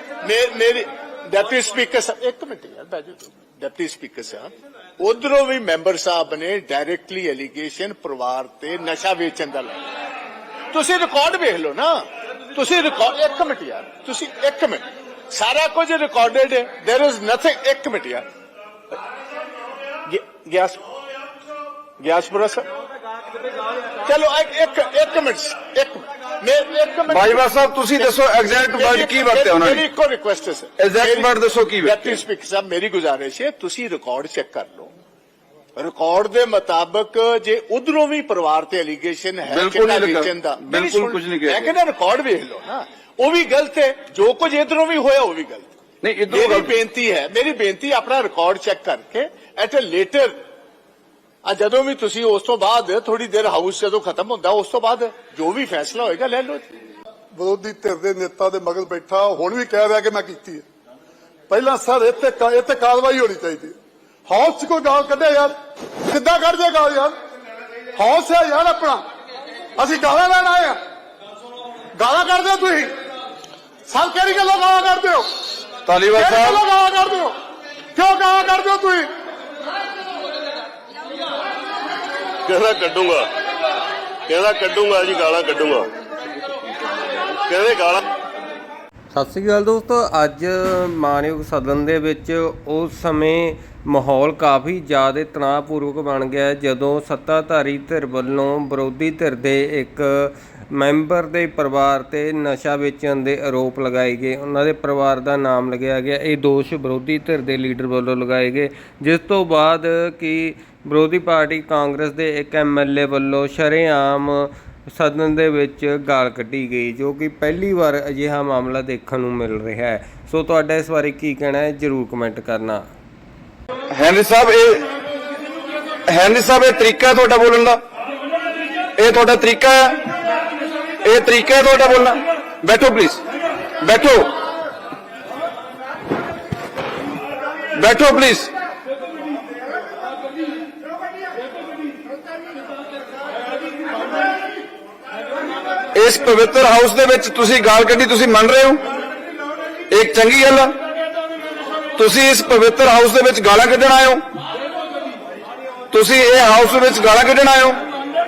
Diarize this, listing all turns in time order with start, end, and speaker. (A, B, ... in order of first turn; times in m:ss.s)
0:00.2-0:09.8 A
0:10.7-0:18.2 A
0:20.1-0:20.8 A
0:22.0-0:22.7 A
0:24.0-0:28.2 A
0:27.1-0:29.8 B
0:28.7-0:34.9 A
0:30.8-0:32.2 B
0:35.8-0:45.7 A
0:39.5-0:41.7 B
0:46.0-0:46.7 B
0:46.3-0:50.4 A
0:51.4-0:56.6 A
0:57.3-1:00.6 C
1:01.5-1:07.2 C
1:08.0-1:09.0 C
1:09.8-1:10.8 C
1:11.9-1:12.9 C
1:13.9-1:15.3 C
1:15.8-1:16.6 B
1:16.1-1:17.4 C
1:17.9-1:19.1 C
1:22.4-1:23.3 D
1:24.3-1:25.9 D
1:27.5-1:28.0 D
1:29.1-2:02.8 E
2:03.9-2:04.9 B
2:06.1-2:07.8 B
2:09.0-2:10.1 B
2:11.0-2:13.2 B
2:13.8-2:14.3 B
2:17.7-2:18.5 B
2:25.9-2:28.8 B
2:29.9-2:30.8 B
2:32.0-2:34.2 B
2:35.9-2:37.8 B